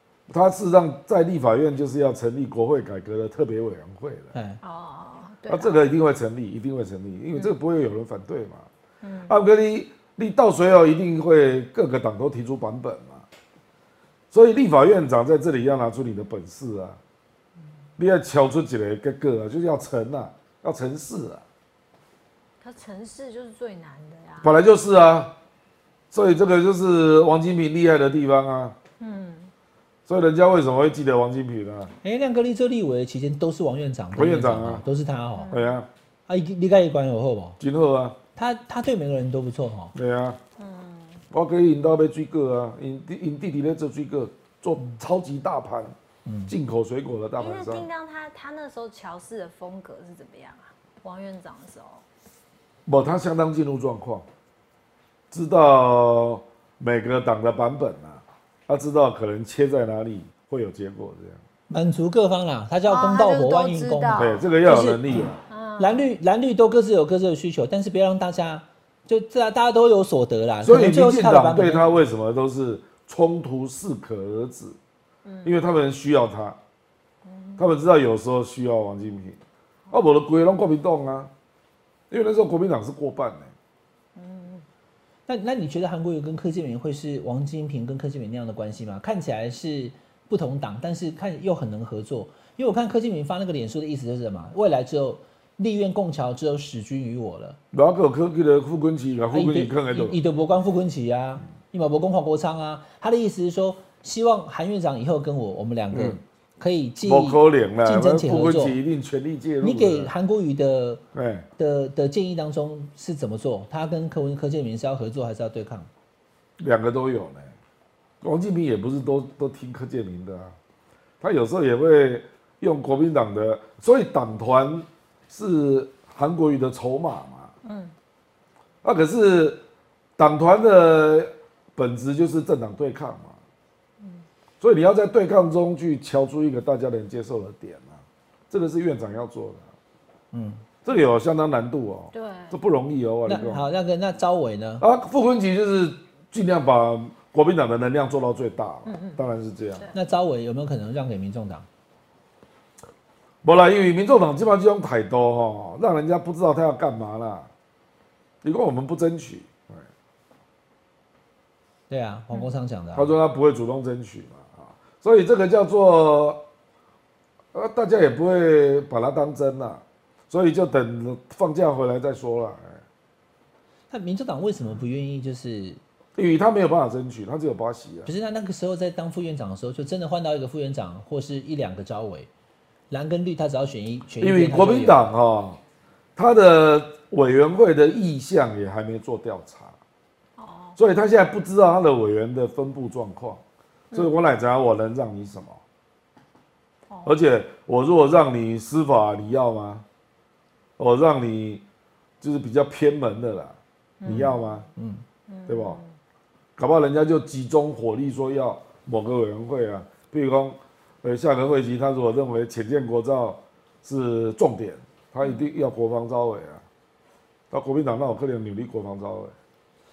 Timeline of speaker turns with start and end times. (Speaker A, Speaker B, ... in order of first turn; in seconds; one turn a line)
Speaker A: 0.3-4.3
Speaker B: 4.3-4.6
Speaker C: 4.6-5.8
Speaker A: 5.5-8.7
Speaker C: 9.0-9.4
Speaker A: 9.3-13.3
Speaker A: 14.3-17.0
Speaker A: 18.0-21.4
Speaker C: 22.6-24.6
Speaker A: 24.4-25.4
Speaker A: 26.1-28.8
Speaker C: 29.0-29.5
Speaker A: 30.1-31.9
Speaker B: 32.0-35.5
Speaker A: 34.1-34.8
Speaker C: 35.4-35.8
Speaker A: 35.5-35.9
Speaker B: 36.3-37.6
Speaker A: 37.6-38.2
Speaker B: 38.4-40.0
Speaker A: 39.9-40.4
Speaker C: 40.6-41.2
Speaker A: 41.3-46.0
Speaker B: 46.3-46.5
Speaker A: 46.5-47.9
Speaker C: 47.4-52.0
Speaker A: 52.9-54.2
Speaker A: 55.3-61.4
Speaker B: 61.7-65.3
Speaker C: 62.9-64.4
Speaker A: 64.2-65.4
Speaker C: 65.5-66.1
Speaker B: 65.8-71.9
Speaker A: 70.6-74.8
Speaker C: 75.2-75.6
Speaker A: 75.4-76.6
Speaker C: 77.2-77.7
Speaker A: 77.6-79.4
Speaker A: 79.9-81.3
Speaker A: 82.1-83.5
Speaker C: 84.2-84.7
Speaker B: 85.3-97.6
Speaker A: 97.7-100.2
Speaker B: 99.3-108.8
Speaker A: 105.9-106.2
Speaker A: 107.0-110.1
Speaker B: 109.6-111.0
Speaker A: 111.1-111.5
Speaker B: 111.6-115.9
Speaker A: 116.6-117.5
Speaker A: 118.2-120.5
Speaker A: 121.2-127.5
Speaker C: 127.6-127.9
Speaker A: 128.8-129.6
Speaker A: 130.2-133.4
Speaker A: 134.6-138.0
Speaker A: 138.5-139.7
Speaker B: 140.3-140.6
Speaker A: 140.8-143.7
Speaker C: 142.1-142.6
Speaker B: 143.3-144.8
Speaker A: 144.8-149.9
Speaker C: 148.9-149.2
Speaker B: 149.9-151.7
Speaker A: 153.4-157.5
Speaker A: 158.4-159.9
Speaker B: 161.9-163.1
Speaker A: 162.9-166.4
Speaker A: 167.5-172.8
Speaker B: 173.9-175.8
Speaker A: 176.2-178.1
Speaker B: 178.1-182.3
Speaker B: 182.9-185.1
Speaker A: 184.2-185.6
Speaker A: 186.2-189.8
Speaker C: 190.4-190.8
Speaker A: 190.8-193.4
Speaker A: 193.9-195.6
Speaker C: 196.9-197.2
Speaker A: 197.1-199.8
Speaker A: 200.8-201.6
Speaker A: 202.2-204.7
Speaker C: 204.0-204.5
Speaker B: 204.1-205.0
Speaker C: 205.3-205.9
Speaker A: 205.5-205.8
Speaker A: 206.6-216.6
Speaker A: 217.5-219.3